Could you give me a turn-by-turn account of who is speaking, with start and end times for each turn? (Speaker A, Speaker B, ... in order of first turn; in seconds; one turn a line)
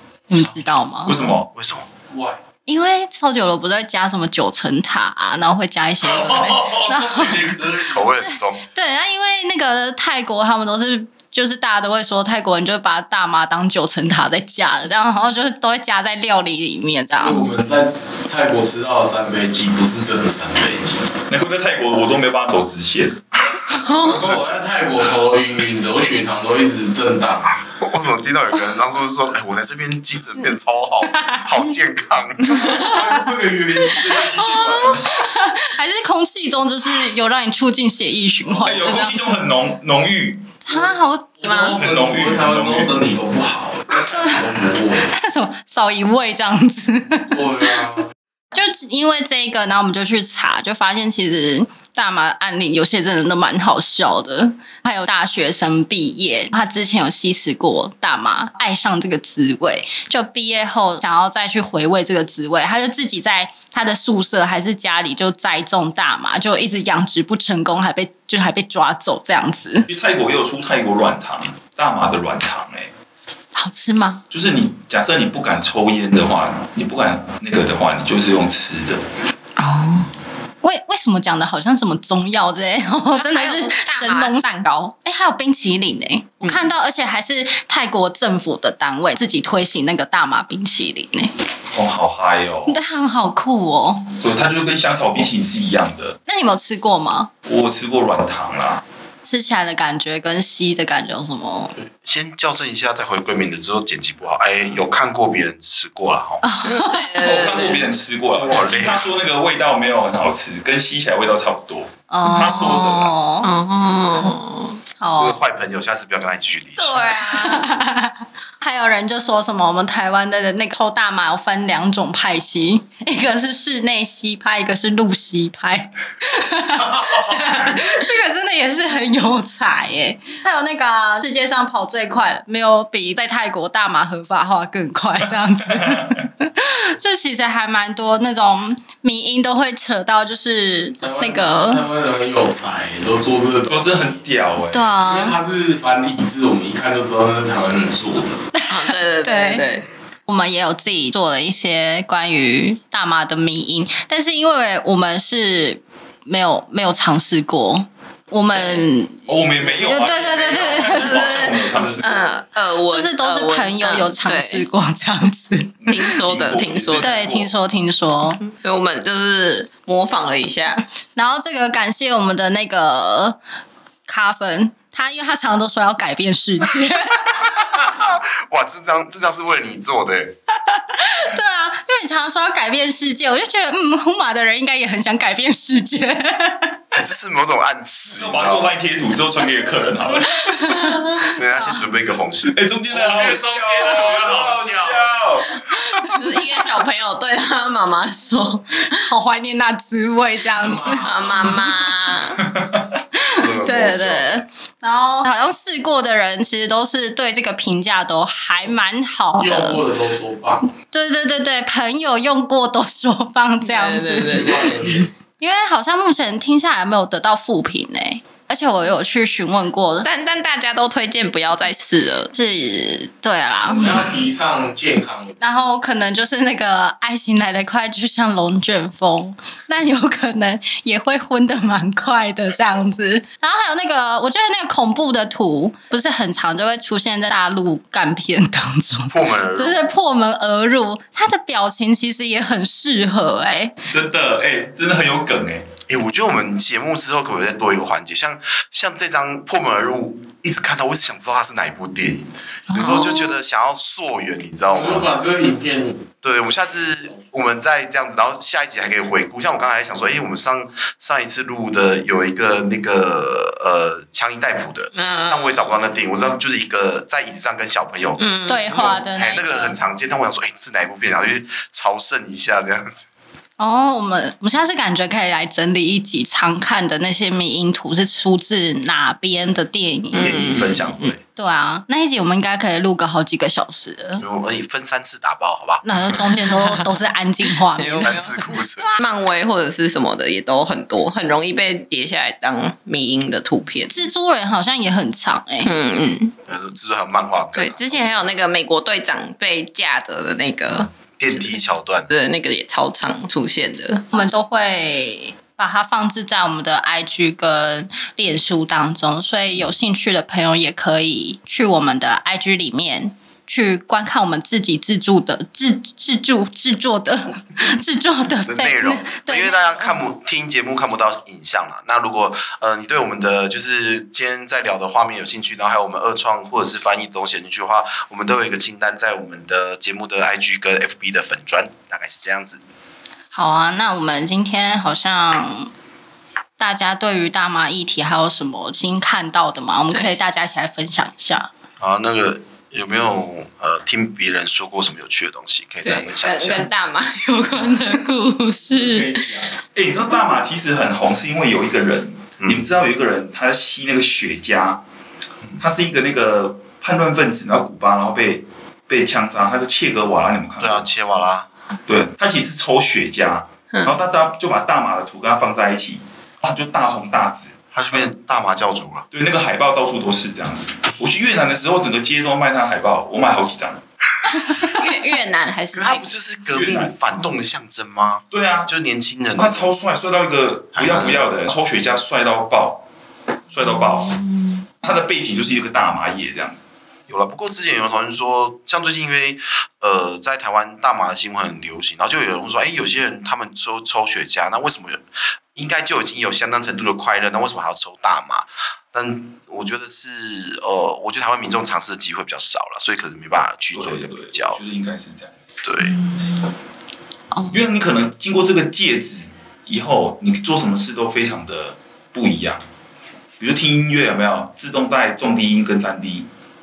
Speaker A: 0.3-1.1
Speaker B: 1.0-1.5
Speaker C: 1.5-1.9
Speaker D: 2.1-2.4
Speaker A: 2.6-17.5
Speaker D: 6.0-8.0
Speaker C: 7.9-8.6
Speaker D: 17.2-21.1
Speaker B: 21.3-23.2
Speaker E: 23.7-24.2
Speaker D: 24.0-27.6
Speaker C: 24.2-24.5
Speaker C: 27.7-32.8
Speaker A: 31.2-31.6
Speaker A: 32.5-33.2
Speaker D: 32.5-34.9
Speaker B: 33.9-35.2
Speaker A: 34.0-39.2
Speaker B: 38.6-40.5
Speaker A: 40.6-41.4
Speaker D: 40.7-45.1
Speaker E: 41.4-41.8
Speaker B: 41.8-43.0
Speaker A: 44.0-44.5
Speaker A: 45.1-47.6
Speaker D: 47.3-48.1
Speaker A: 48.5-69.9
Speaker B: 69.9-72.9
Speaker A: 73.5-74.2
Speaker B: 74.3-79.0
Speaker A: 79.6-80.1
Speaker A: 80.6-91.3
Speaker E: 83.2-84.8
Speaker B: 91.7-92.8
Speaker A: 92.7-94.1
Speaker B: 94.2-96.2
Speaker A: 96.2-97.3
Speaker B: 97.4-98.8
Speaker A: 99.2-101.7
Speaker C: 102.0-106.4
Speaker A: 106.4-107.1
Speaker E: 106.6-107.8
Speaker B: 107.2-113.1
Speaker C: 108.3-109.1
Speaker A: 112.1-113.5
Speaker E: 113.4-114.8
Speaker A: 115.0-115.4
Speaker C: 115.2-117.1
Speaker E: 116.8-117.7
Speaker A: 117.0-141.8
Speaker D: 126.9-127.4
Speaker B: 135.7-136.0
Speaker D: 141.0-144.2
Speaker B: 143.7-144.9
Speaker A: 144.7-145.4
Speaker D: 145.0-148.4
Speaker A: 148.5-149.6
Speaker E: 148.7-149.8
Speaker A: 150.3-161.6
Speaker E: 158.5-158.8
Speaker B: 159.3-162.1
Speaker E: 160.7-164.7
Speaker D: 161.6-162.0
Speaker A: 162.9-165.8
Speaker B: 165.8-167.5
Speaker E: 165.9-167.2
Speaker A: 167.0-168.4
Speaker E: 168.4-170.8
Speaker A: 171.1-173.4
Speaker A: 174.1-177.6
Speaker C: 177.4-180.3
Speaker A: 180.7-186.8
Speaker C: 186.9-188.8
Speaker B: 188.1-190.6
Speaker A: 190.2-191.8
Speaker C: 191.2-192.5
Speaker B: 192.5-195.8
Speaker D: 192.9-195.2
Speaker A: 195.9-196.2
Speaker E: 196.1-199.1
Speaker A: 199.0-201.5
Speaker D: 200.5-201.6
Speaker E: 201.0-202.4
Speaker B: 202.5-202.9
Speaker A: 203.1-209.8
Speaker C: 203.3-204.4
Speaker D: 209.4-210.7
Speaker A: 210.9-214.6
Speaker E: 213.6-214.8
Speaker D: 214.2-215.1
Speaker A: 215.4-220.1
Speaker E: 220.0-222.3
Speaker A: 222.3-224.1
Speaker D: 223.7-225.4
Speaker A: 225.4-243.8
Speaker C: 239.1-239.9
Speaker B: 243.8-245.7
Speaker C: 245.9-255.1
Speaker A: 252.7-253.3
Speaker D: 254.7-256.1
Speaker C: 256.2-268.2
Speaker D: 257.1-257.3
Speaker E: 264.9-265.7
Speaker E: 268.2-269.3
Speaker A: 268.5-269.7
Speaker C: 268.8-273.1
Speaker A: 273.6-280.6
Speaker E: 280.1-281.1
Speaker C: 280.2-281.2
Speaker A: 281.4-284.2
Speaker C: 284.2-286.4
Speaker A: 285.8-288.4
Speaker E: 287.7-288.2
Speaker C: 288.0-288.9
Speaker E: 288.8-294.0
Speaker A: 293.9-295.7
Speaker E: 295.6-296.3
Speaker C: 296.5-298.2
Speaker E: 297.5-304.1
Speaker C: 301.2-302.1
Speaker A: 304.1-320.0
Speaker C: 318.4-332.6
Speaker A: 333.3-335.7
Speaker A: 336.6-341.5
Speaker E: 339.9-340.2
Speaker C: 341.8-346.7
Speaker E: 345.8-349.1
Speaker D: 348.7-349.6
Speaker B: 349.7-354.8
Speaker B: 355.6-360.9
Speaker C: 360.6-361.5
Speaker B: 361.9-368.1
Speaker C: 367.7-369.1
Speaker B: 369.1-373.8
Speaker E: 374.6-376.1
Speaker C: 375.7-379.7
Speaker B: 376.5-376.9
Speaker B: 378.3-378.7
Speaker B: 379.3-382.8
Speaker C: 380.7-381.2
Speaker B: 383.5-384.2
Speaker B: 384.8-386.6
Speaker C: 387.1-395.0
Speaker C: 395.5-404.6
Speaker B: 403.7-405.3
Speaker C: 405.6-406.0
Speaker A: 405.8-406.4
Speaker B: 407.5-412.6
Speaker B: 413.4-416.3